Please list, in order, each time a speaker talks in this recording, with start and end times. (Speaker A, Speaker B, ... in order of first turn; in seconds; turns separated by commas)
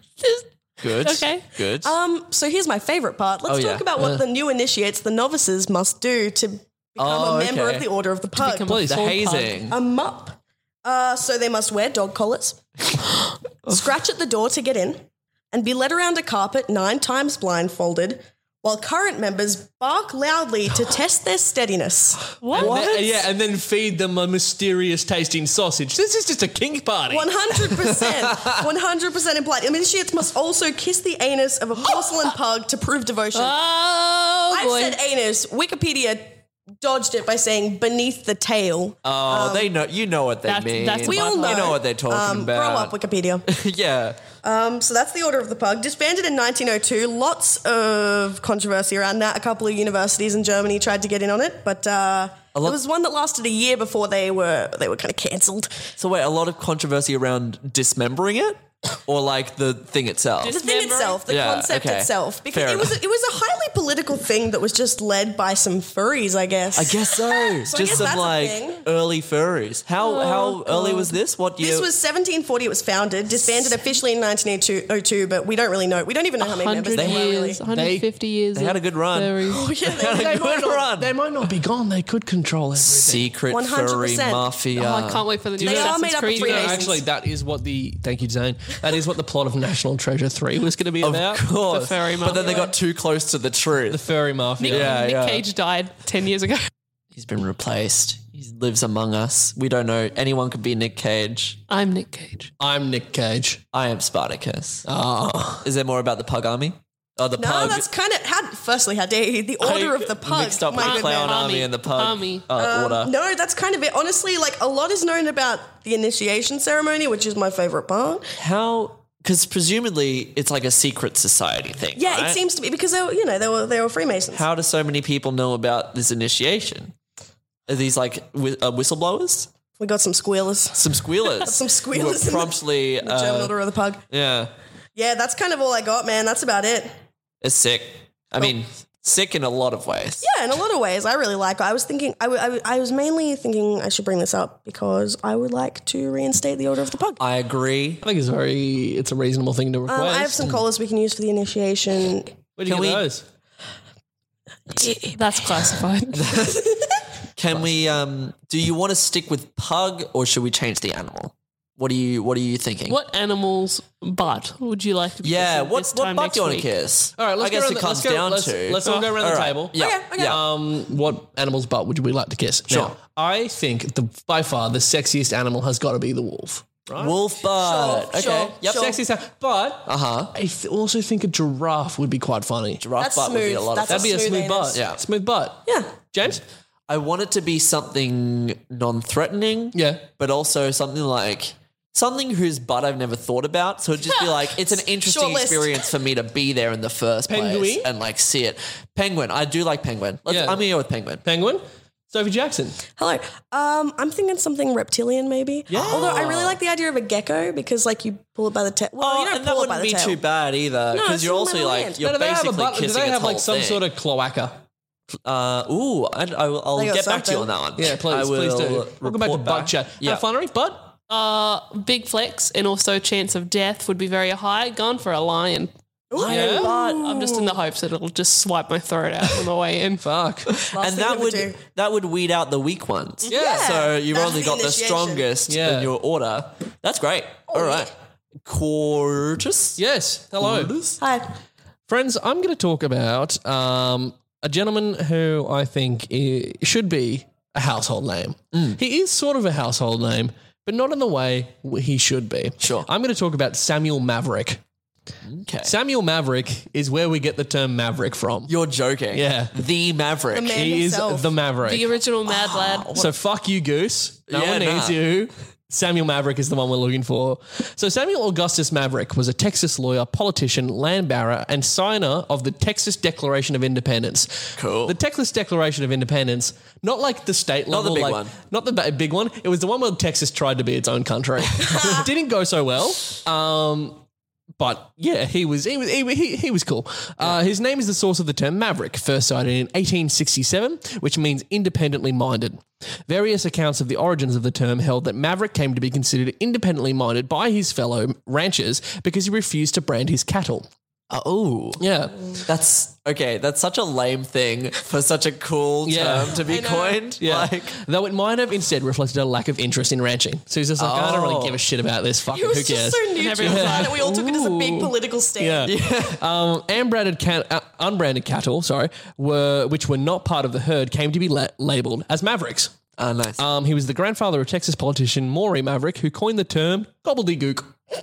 Speaker A: 0.2-1.5, Speaker B: 0.8-1.9, Speaker C: 1.8-8.8, Speaker B: 3.5-3.9, Speaker D: 4.0-4.2, Speaker B: 7.0-7.9, Speaker A: 8.4-9.5, Speaker D: 8.6-9.4, Speaker B: 8.8-9.8, Speaker C: 9.7-12.6, Speaker C: 13.7-22.4, Speaker A: 22.4-22.9, Speaker B: 22.5-23.2, Speaker D: 22.5-27.4, Speaker C: 27.1-33.6, Speaker A: 33.3-35.0, Speaker C: 34.5-39.7, Speaker B: 39.0-43.0, Speaker A: 40.5-41.8, Speaker C: 41.0-43.5, Speaker B: 43.5-44.2, Speaker C: 44.4-55.8, Speaker B: 56.0-60.6, Speaker A: 60.4-61.2, Speaker C: 60.5-68.8, Speaker B: 61.3-63.0, Speaker B: 66.8-71.9, Speaker A: 70.0-70.6, Speaker C: 70.7-77.6, Speaker A: 76.4-79.7, Speaker B: 76.9-77.3, Speaker D: 77.7-78.0, Speaker B: 78.5-81.1, Speaker C: 79.5-80.5, Speaker D: 80.0-83.3, Speaker B: 82.8-85.3, Speaker C: 83.5-84.5, Speaker A: 84.7-86.9, Speaker D: 85.6-91.5, Speaker C: 85.6-87.0, Speaker B: 91.0-94.1, Speaker A: 91.6-92.7, Speaker D: 93.9-95.0, Speaker A: 94.6-96.7, Speaker B: 94.7-95.5, Speaker B: 97.1-101.6, Speaker A: 101.7-102.5, Speaker D: 102.6-103.6, Speaker B: 103.7-104.9, Speaker D: 104.9-105.7, Speaker B: 105.6-107.9, Speaker C: 107.4-111.5, Speaker B: 109.6-113.1, Speaker A: 110.8-112.5, Speaker C: 112.5-118.3, Speaker B: 118.4-122.4, Speaker C: 122.0-124.5, Speaker B: 124.3-126.9, Speaker B: 127.7-129.5, Speaker C: 129.8-134.0, Speaker B: 130.7-133.5, Speaker B: 134.1-134.5, Speaker C: 135.0-136.9, Speaker B: 137.4-140.3, Speaker C: 140.2-147.2, Speaker B: 147.2-148.0, Speaker D: 148.0-150.5, Speaker C: 149.9-152.3, Speaker D: 152.6-153.2, Speaker B: 152.7-153.1, Speaker A: 154.8-156.5, Speaker B: 156.1-163.0, Speaker A: 162.9-166.7, Speaker B: 165.2-170.4, Speaker D: 167.2-177.2, Speaker C: 169.8-170.4, Speaker B: 172.7-172.9, Speaker B: 177.0-178.9, Speaker C: 177.5-179.0, Speaker D: 178.6-182.8, Speaker B: 179.9-180.3, Speaker B: 182.8-184.2, Speaker C: 183.0-184.8, Speaker D: 183.9-186.4, Speaker B: 184.7-185.0, Speaker C: 185.7-185.9, Speaker B: 186.9-201.2, Speaker D: 189.7-190.1, Speaker C: 194.8-195.8, Speaker D: 197.3-197.9, Speaker D: 200.3-200.7, Speaker D: 201.2-202.8, Speaker C: 203.0-210.2, Speaker D: 205.7-206.3, Speaker B: 205.7-206.6, Speaker B: 209.0-213.8, Speaker C: 210.9-212.0, Speaker D: 212.0-214.6, Speaker B: 215.2-220.2, Speaker C: 216.8-217.5, Speaker D: 217.8-220.9, Speaker A: 221.1-225.7, Speaker C: 226.1-227.4, Speaker B: 226.1-227.2, Speaker D: 226.3-226.7, Speaker A: 226.6-230.1, Speaker D: 230.0-230.5, Speaker B: 230.5-237.9, Speaker C: 230.7-231.6, Speaker D: 233.3-233.8, Speaker C: 233.3-235.3, Speaker D: 235.5-235.9, Speaker C: 237.5-237.9, Speaker B: 238.4-239.8, Speaker D: 239.8-240.7, Speaker B: 240.4-241.0, Speaker C: 241.0-241.3, Speaker D: 241.9-254.6, Speaker B: 248.5-248.8, Speaker B: 252.6-252.9, Speaker B: 255.2-255.7, Speaker D: 255.6-258.5, Speaker B: 258.5-260.6, Speaker D: 259.1-259.5, Speaker C: 260.3-261.4, Speaker D: 260.5-261.9, Speaker A: 261.6-263.0, Speaker B: 262.3-263.1, Speaker D: 262.9-284.0, Speaker B: 264.3-265.0, Speaker B: 274.6-274.9, Speaker B: 277.7-278.3, Speaker D: 284.6-300.7, Speaker B: 301.1-301.8, Speaker D: 301.8-302.1, Speaker B: 302.4-307.8, Speaker D: 305.9-306.4, Speaker C: 306.4-307.0, Speaker D: 307.2-322.7, Speaker B: 310.8-311.6, Speaker C: 312.3-315.7, Speaker A: 313.1-314.1, Speaker B: 315.7-316.2, Speaker B: 323.0-323.4, Speaker D: 323.4-327.8